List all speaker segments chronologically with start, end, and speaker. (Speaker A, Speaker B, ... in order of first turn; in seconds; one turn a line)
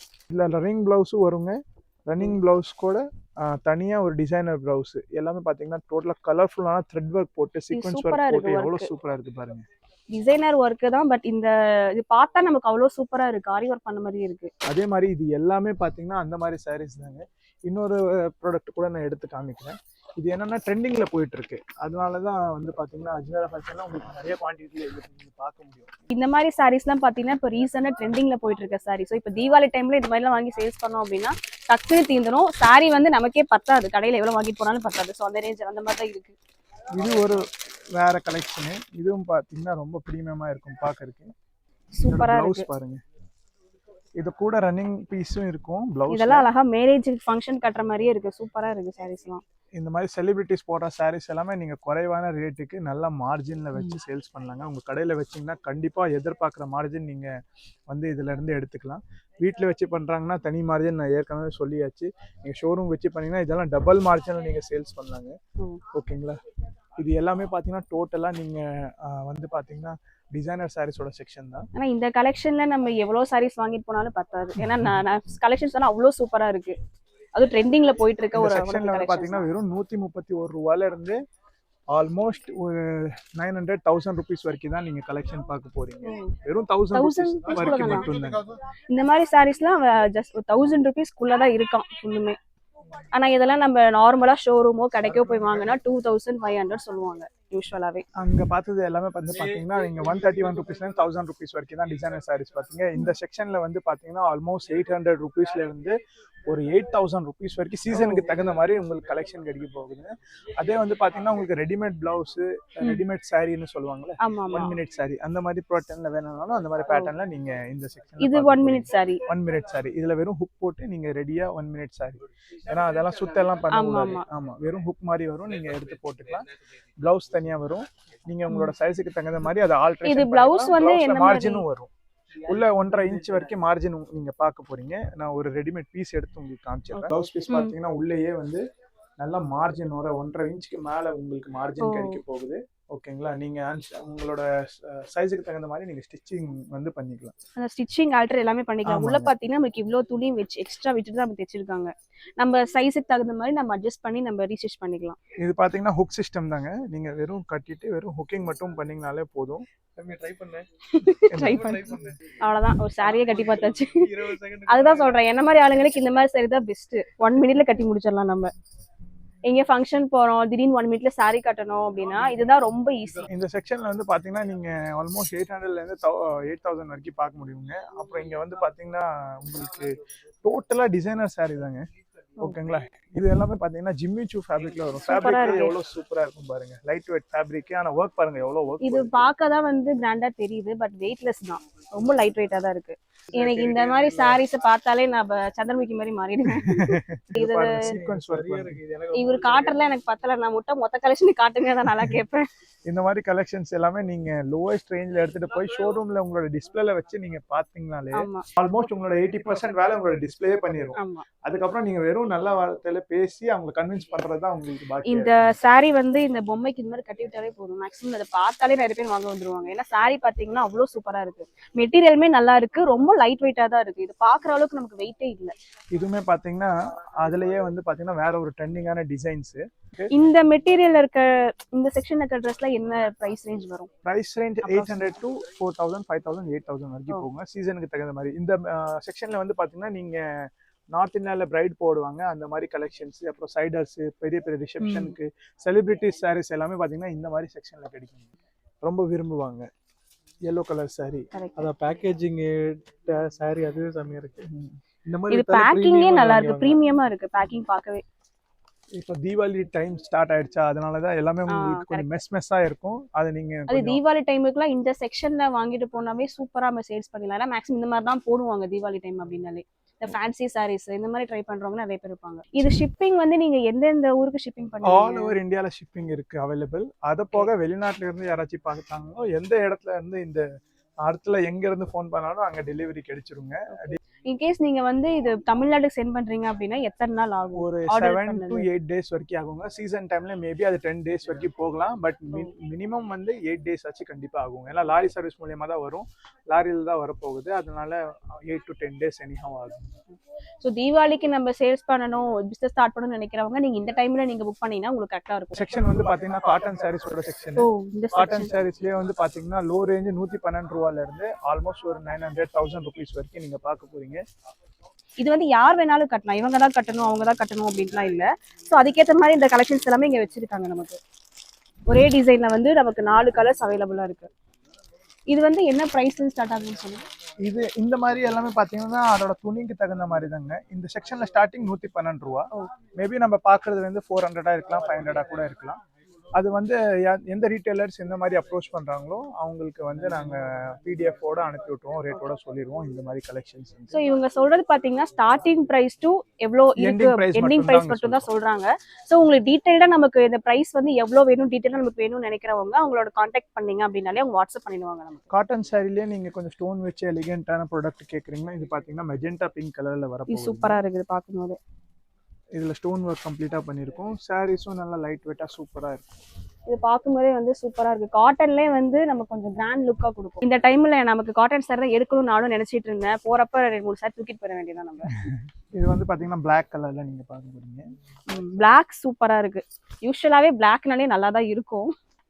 Speaker A: 0.3-9.6
Speaker B: 7.7-8.9
Speaker B: 10.1-14.5
Speaker A: 14.7-26.0
Speaker B: 26.1-36.4
Speaker A: 36.9-41.3
Speaker B: 41.9-42.7
Speaker A: 42.1-43.0
Speaker A: 44.2-46.5
Speaker B: 46.1-49.4
Speaker A: 49.8-57.3
Speaker A: 57.9-65.3
Speaker A: 65.9-66.4
Speaker A: 67.0-71.7
Speaker B: 71.7-76.8
Speaker B: 77.3-79.4
Speaker A: 78.3-81.2
Speaker A: 81.9-88.5
Speaker B: 86.0-86.3
Speaker B: 86.9-88.1
Speaker B: 88.9-92.4
Speaker B: 93.1-98.0
Speaker A: 95.3-95.7
Speaker A: 98.2-106.0
Speaker A: 106.5-126.4
Speaker B: 107.9-108.2
Speaker B: 114.2-114.8
Speaker B: 118.2-119.2
Speaker B: 123.7-124.2
Speaker A: 127.0-131.9
Speaker B: 130.0-131.6
Speaker A: 132.5-138.6
Speaker B: 136.9-137.7
Speaker A: 139.2-147.3
Speaker B: 141.8-142.2
Speaker B: 147.6-155.2
Speaker A: 148.8-149.3
Speaker A: 155.4-159.6
Speaker C: 160.0-160.7
Speaker B: 160.9-164.1
Speaker A: 161.3-161.8
Speaker C: 161.3-162.3
Speaker C: 163.0-165.1
Speaker B: 164.7-168.5
Speaker B: 169.4-173.2
Speaker A: 173.3-179.9
Speaker A: 180.4-181.8
Speaker A: 182.4-189.1
Speaker B: 185.0-185.7
Speaker B: 188.8-197.9
Speaker C: 193.3-194.4
Speaker A: 196.5-198.8
Speaker C: 197.7-199.8
Speaker B: 199.1-202.5
Speaker A: 202.9-215.5
Speaker B: 208.1-208.4
Speaker B: 211.0-211.2
Speaker B: 215.1-225.5
Speaker A: 225.9-230.1
Speaker B: 230.1-233.9
Speaker A: 234.0-248.3
Speaker B: 234.6-235.1
Speaker B: 244.8-245.1
Speaker A: 248.8-249.7
Speaker A: 250.5-251.2
Speaker B: 251.3-251.7
Speaker C: 251.6-254.4
Speaker A: 254.4-254.7
Speaker C: 255.1-256.8
Speaker B: 255.3-258.0
Speaker A: 258.9-264.0
Speaker B: 261.5-262.1
Speaker B: 263.7-275.3
Speaker A: 274.8-280.4
Speaker A: 281.0-284.0
Speaker B: 283.7-288.6
Speaker A: 287.6-299.9
Speaker B: 300.6-305.6
Speaker A: 305.5-314.2
Speaker B: 307.6-308.5
Speaker B: 315.2-321.0
Speaker B: 321.9-324.3
Speaker B: 325.3-327.0
Speaker A: 327.4-335.8
Speaker A: 336.4-344.0
Speaker B: 343.9-355.3
Speaker A: 346.8-348.3
Speaker A: 355.3-360.8
Speaker B: 360.3-361.6
Speaker A: 362.5-366.1
Speaker B: 366.7-375.1
Speaker A: 375.1-377.9
Speaker B: 378.3-381.9